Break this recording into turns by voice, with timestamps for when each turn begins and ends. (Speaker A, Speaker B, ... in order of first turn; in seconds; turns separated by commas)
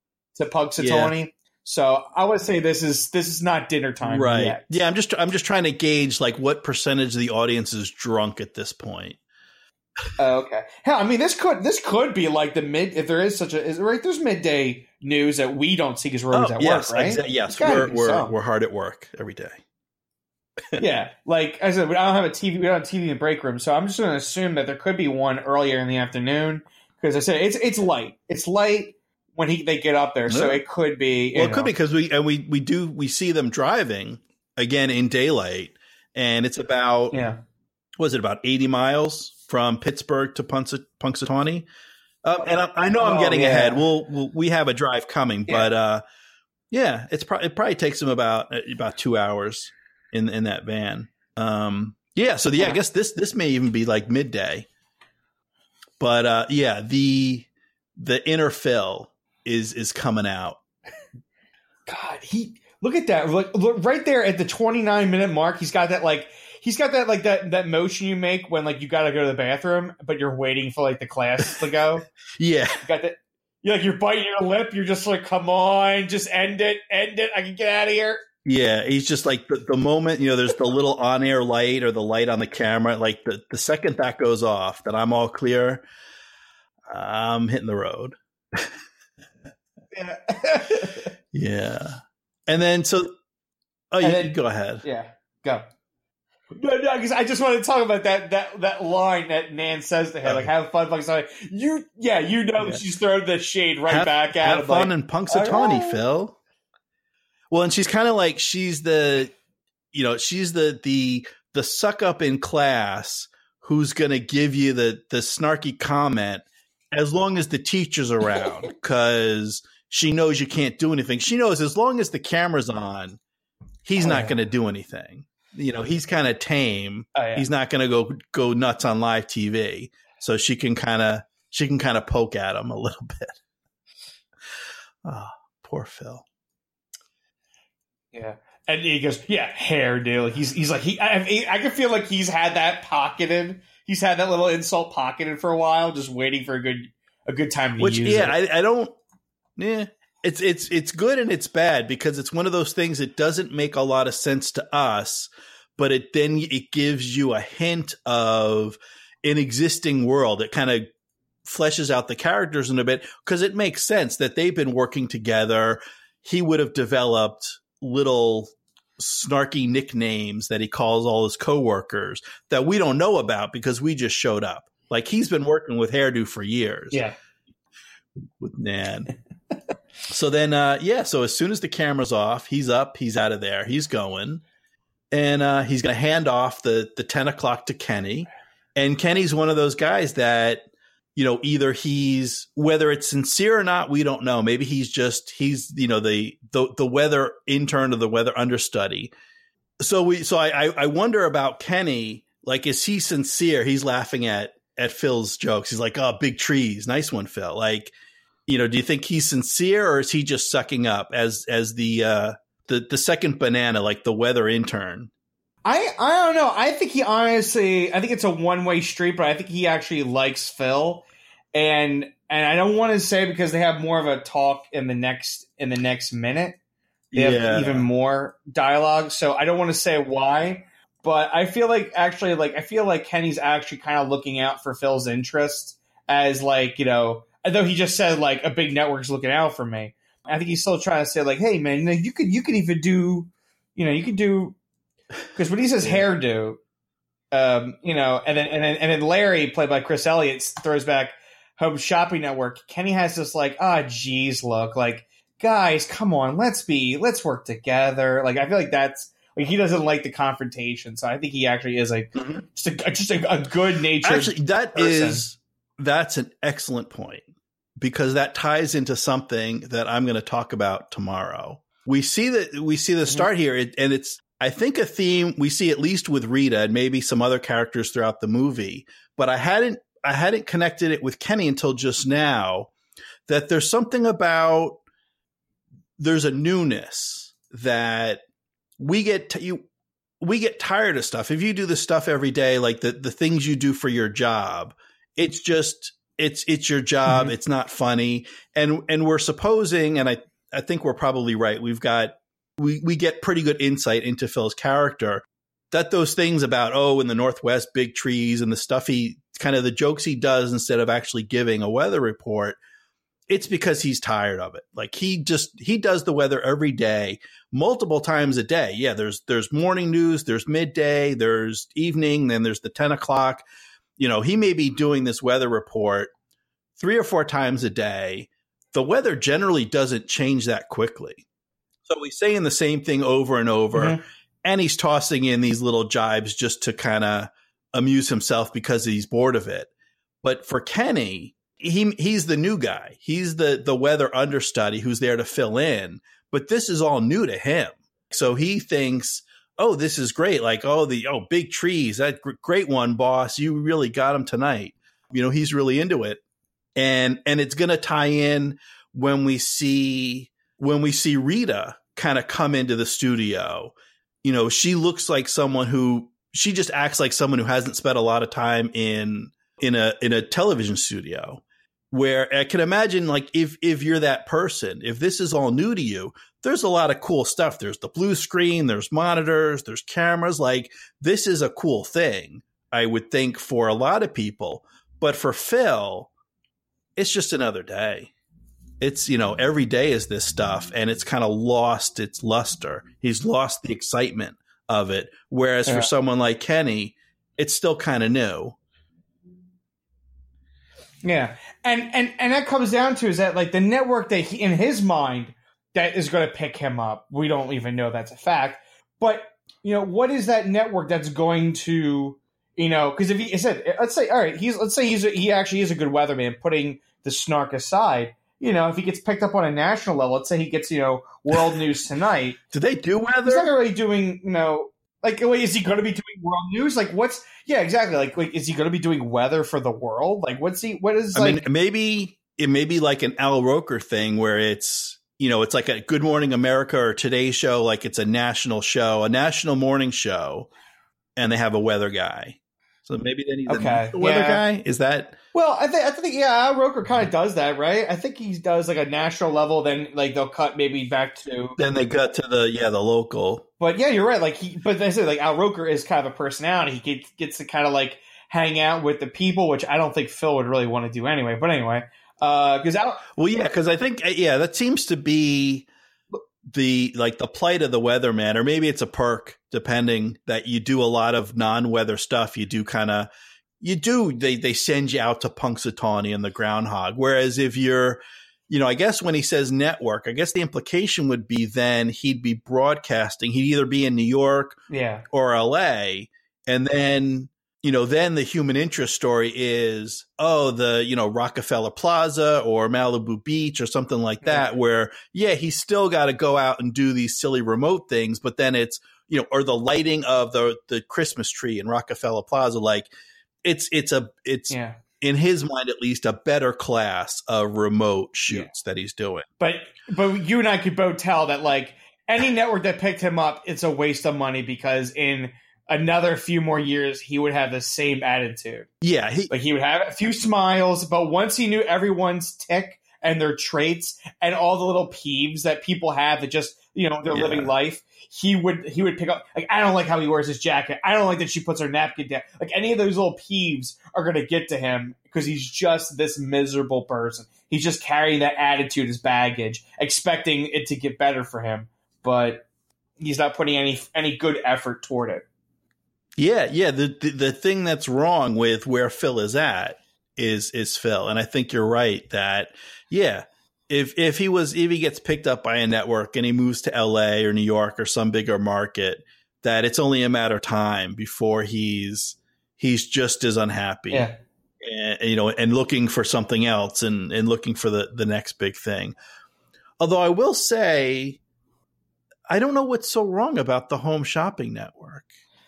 Speaker A: 0.3-4.8, Speaker B: 0.8-1.1, Speaker B: 4.0-9.2, Speaker A: 10.2-18.3, Speaker B: 16.3-19.6, Speaker A: 20.8-31.7, Speaker B: 30.3-30.6, Speaker B: 31.4-37.2, Speaker A: 37.1-37.4, Speaker B: 38.0-41.7, Speaker B: 42.2-46.0, Speaker A: 43.0-43.9, Speaker B: 46.7-54.7, Speaker B: 56.0-60.6, Speaker A: 61.9-72.1, Speaker B: 72.4-72.8, Speaker A: 72.8-78.2, Speaker B: 78.5-85.8, Speaker B: 86.9-88.7, Speaker A: 89.9-91.1, Speaker B: 91.3-93.1, Speaker B: 93.9-94.8, Speaker A: 94.0-95.7, Speaker A: 96.5-106.0, Speaker B: 100.2-100.5, Speaker B: 103.9-106.4, Speaker B: 107.5-109.3, Speaker B: 109.9-123.2, Speaker B: 123.9-133.4, Speaker A: 124.0-124.4, Speaker A: 127.2-127.5, Speaker B: 135.1-136.2, Speaker A: 138.1-148.4, Speaker B: 147.8-149.0, Speaker B: 149.6-160.9, Speaker B: 161.4-177.0, Speaker A: 176.9-177.2, Speaker B: 178.4-179.1, Speaker B: 180.1-184.4, Speaker B: 185.1-190.6, Speaker B: 191.2-199.1, Speaker B: 199.8-207.9, Speaker B: 208.5-215.1, Speaker A: 215.6-226.6, Speaker B: 227.1-227.9, Speaker A: 227.1-244.6, Speaker A: 245.3-246.6, Speaker A: 247.3-265.3, Speaker B: 262.1-262.4, Speaker B: 264.0-267.3, Speaker B: 267.8-282.7, Speaker B: 283.3-284.8, Speaker B: 286.0-288.2, Speaker B: 288.8-289.7, Speaker B: 290.2-312.6, Speaker A: 297.1-297.4, Speaker B: 313.3-323.5, Speaker B: 324.0-326.1, Speaker B: 326.8-331.2, Speaker B: 331.9-339.7, Speaker A: 333.7-334.0, Speaker B: 340.2-356.2, Speaker B: 356.8-386.1, Speaker B: 387.0-388.1, Speaker B: 388.8-398.6, Speaker A: 401.0-422.4, Speaker B: 422.5-423.5, Speaker A: 423.2-431.4, Speaker B: 431.1-440.5, Speaker B: 441.2-445.2, Speaker A: 443.5-444.4, Speaker A: 445.3-451.6, Speaker B: 451.6-453.4, Speaker A: 453.6-463.0, Speaker B: 463.2-465.7, Speaker B: 466.5-473.1, Speaker B: 473.6-502.9, Speaker A: 484.7-485.1, Speaker A: 494.2-494.5, Speaker B: 503.4-509.3, Speaker A: 504.5-504.8, Speaker A: 509.4-518.7, Speaker B: 518.8-519.3, Speaker A: 519.3-542.5, Speaker B: 527.1-527.5, Speaker A: 543.0-545.3, Speaker B: 546.2-564.1, Speaker A: 563.9-564.2, Speaker B: 564.6-569.0, Speaker B: 569.8-571.2, Speaker B: 572.3-575.1